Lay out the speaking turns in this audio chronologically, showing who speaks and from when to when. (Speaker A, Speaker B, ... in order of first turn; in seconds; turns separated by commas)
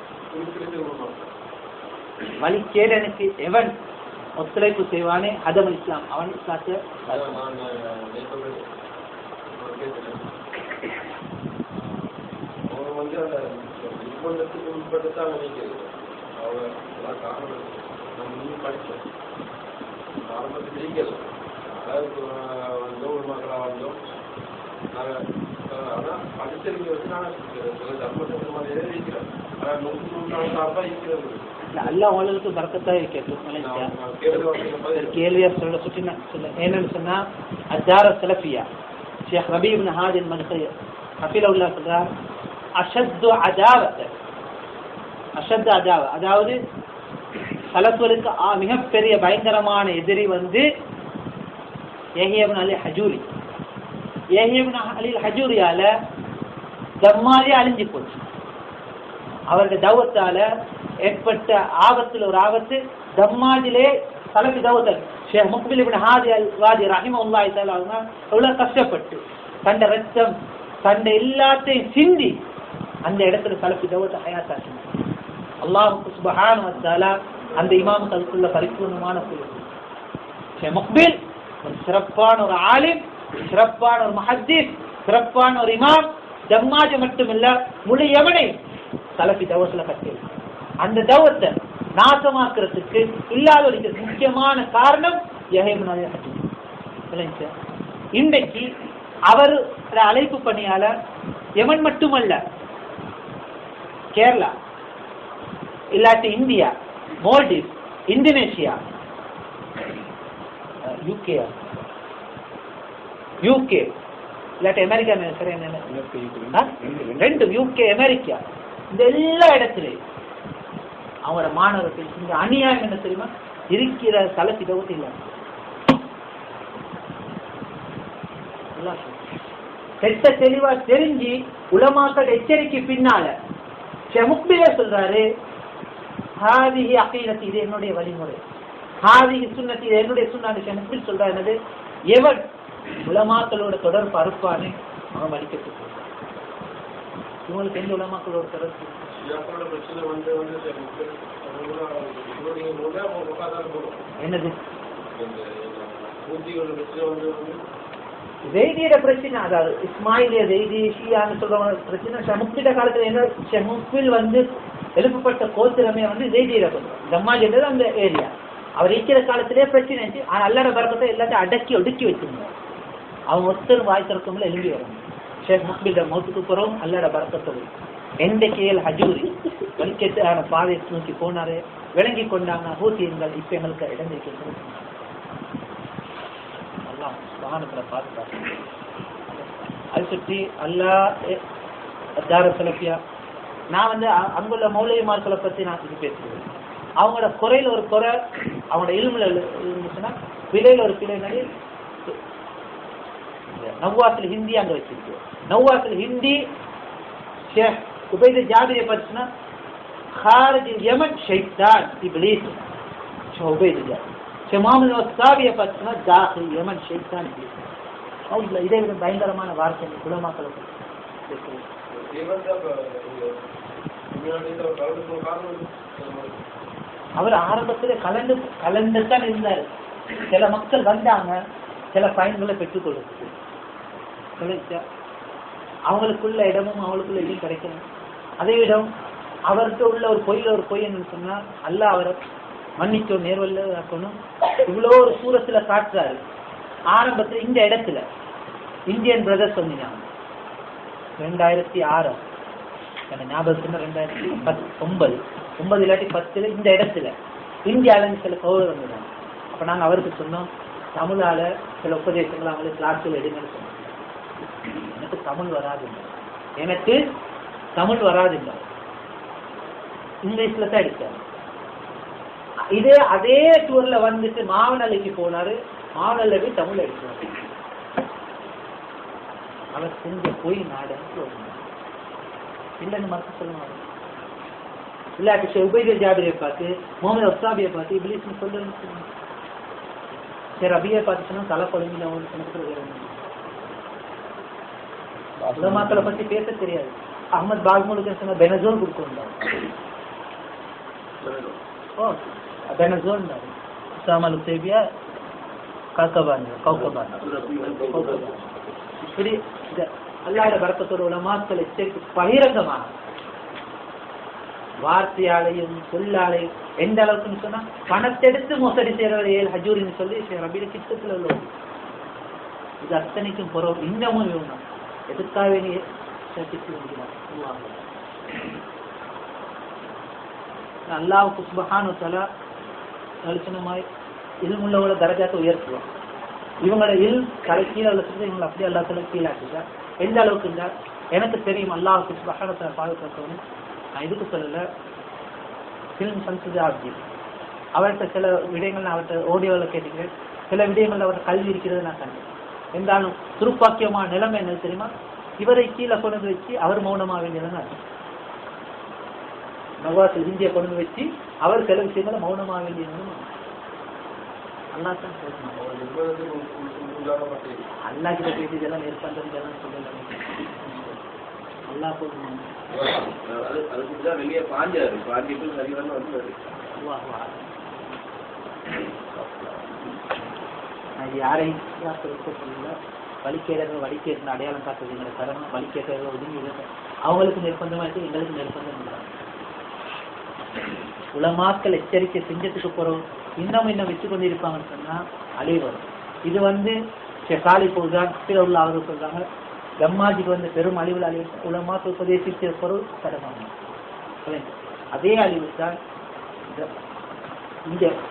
Speaker A: 0.3-1.3, Speaker B: 2.4-3.7, Speaker B: 4.4-7.4, Speaker A: 7.1-8.6, Speaker A: 9.5-10.2, Speaker A: 11.7-12.0, Speaker A: 12.7-19.0, Speaker A: 20.2-24.0, Speaker A: 25.7-31.5, Speaker B: 31.7-38.6, Speaker A: 33.6-35.2, Speaker B: 39.3-42.1, Speaker B: 42.8-44.1, Speaker B: 45.4-46.6, Speaker B: 47.7-50.6, Speaker B: 52.2-53.3, Speaker B: 54.4-55.9, Speaker B: 57.0-58.2, Speaker B: 59.5-60.5, Speaker B: 61.0-72.4, Speaker B: 73.0-74.8, Speaker B: 75.6-79.7, Speaker A: 77.5-79.3, Speaker B: 80.6-88.5, Speaker B: 89.2-90.2, Speaker B: 90.8-96.5, Speaker B: 97.1-97.5, Speaker B: 98.1-98.7, Speaker B: 99.3-100.9, Speaker B: 101.6-102.4, Speaker B: 104.1-104.5, Speaker B: 105.9-108.8, Speaker B: 110.8-111.8, Speaker B: 113.4-113.8, Speaker B: 114.6-120.0, Speaker C: 116.1-116.4, Speaker B: 121.2-125.2, Speaker B: 128.7-129.2, Speaker B: 130.0-133.3, Speaker B: 134.1-135.2, Speaker B: 136.4-138.4, Speaker B: 139.0-141.6, Speaker B: 142.1-142.4, Speaker B: 143.0-146.0, Speaker B: 147.4-149.0, Speaker A: 149.2-154.0, Speaker B: 154.2-154.6, Speaker A: 155.0-157.6, Speaker B: 158.4-164.4, Speaker B: 164.9-172.5, Speaker B: 173.3-177.7, Speaker B: 178.2-184.9, Speaker B: 186.8-188.5, Speaker B: 189.3-191.4, Speaker B: 192.2-193.0, Speaker B: 193.7-196.4, Speaker B: 197.0-198.1, Speaker B: 198.7-201.4, Speaker B: 203.5-206.4, Speaker B: 207.5-209.3, Speaker B: 210.1-212.6, Speaker B: 213.3-217.6, Speaker B: 218.3-220.7, Speaker B: 221.3-221.6, Speaker A: 221.9-223.3, Speaker A: 224.1-226.3, Speaker B: 227.2-231.3, Speaker B: 231.9-233.3, Speaker B: 234.4-234.8, Speaker B: 235.9-237.8, Speaker B: 238.4-238.9, Speaker B: 239.5-242.2, Speaker B: 242.8-246.2, Speaker B: 246.9-248.0, Speaker B: 248.9-250.1, Speaker B: 251.2-252.2, Speaker B: 253.1-257.1, Speaker B: 257.7-263.8, Speaker B: 264.8-267.0, Speaker B: 267.8-268.7, Speaker B: 270.2-271.2, Speaker B: 272.7-277.4, Speaker B: 279.7-281.6, Speaker B: 282.8-283.8, Speaker B: 285.2-289.1, Speaker B: 290.6-293.1, Speaker C: 295.4-296.0, Speaker B: 295.5-299.5, Speaker C: 301.2-301.6, Speaker B: 302.0-304.8, Speaker B: 305.9-308.4, Speaker C: 306.8-308.4, Speaker B: 309.0-312.9, Speaker B: 314.8-321.5, Speaker B: 322.8-327.8, Speaker B: 330.9-332.2, Speaker B: 333.2-333.8, Speaker B: 334.4-335.9, Speaker B: 336.6-343.4, Speaker B: 343.9-344.6, Speaker B: 346.0-347.0, Speaker B: 347.7-357.7, Speaker B: 359.8-363.3, Speaker B: 364.7-365.6, Speaker A: 365.6-367.6, Speaker B: 367.9-371.0, Speaker B: 371.7-372.5, Speaker C: 372.7-376.4, Speaker B: 376.8-377.5, Speaker B: 379.1-379.9, Speaker B: 381.0-389.1, Speaker B: 391.1-396.7, Speaker B: 397.3-399.2, Speaker B: 399.8-403.5, Speaker B: 404.2-405.8, Speaker B: 407.6-407.9